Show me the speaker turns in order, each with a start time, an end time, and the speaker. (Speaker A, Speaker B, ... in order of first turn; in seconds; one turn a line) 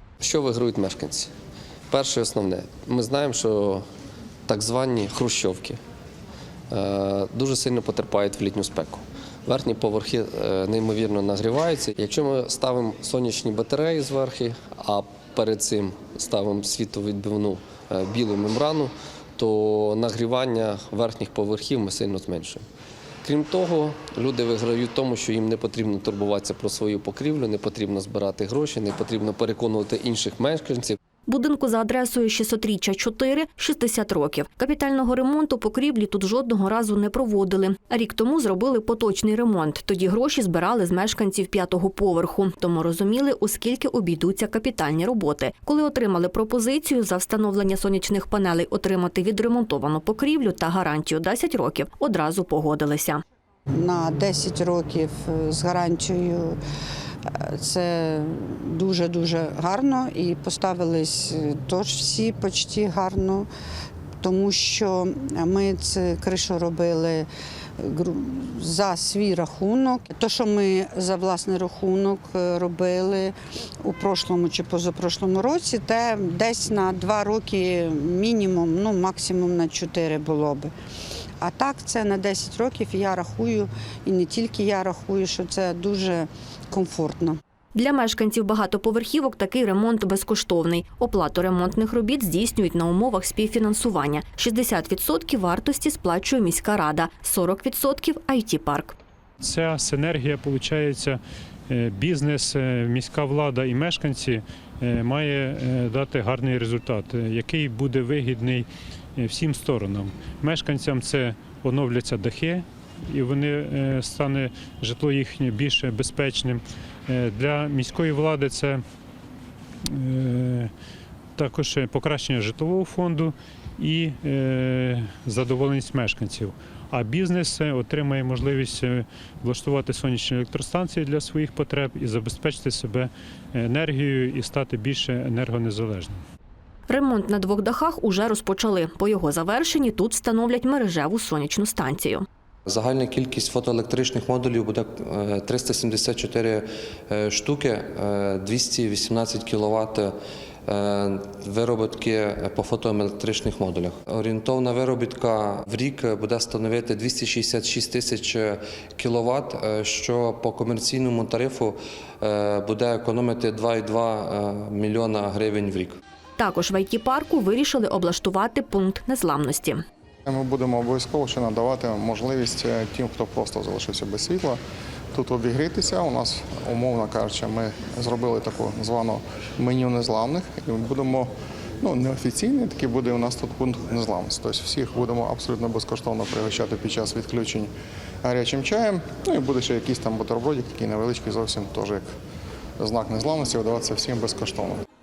Speaker A: 0.2-1.3
Speaker A: 1.9-3.8
Speaker A: 4.5-5.8
Speaker A: 6.7-22.6
Speaker A: 23.2-31.0
Speaker B: 31.3-53.2
Speaker C: 53.7-56.6
Speaker C: 57.4-63.5
Speaker C: 64.2-67.3
Speaker C: 67.8-80.7
Speaker C: 81.4-87.4
Speaker B: 87.7-99.0
Speaker D: 99.4-118.8
Speaker D: 119.9-120.7
Speaker D: 121.3-136.2
Speaker B: 136.9-142.2
Speaker E: 142.7-150.1
Speaker E: 150.7-166.0
Speaker B: 166.4-169.8
Speaker F: 170.2-174.6
Speaker F: 175.1-187.7
Speaker F: 188.2-192.1
Speaker F: 192.8-194.8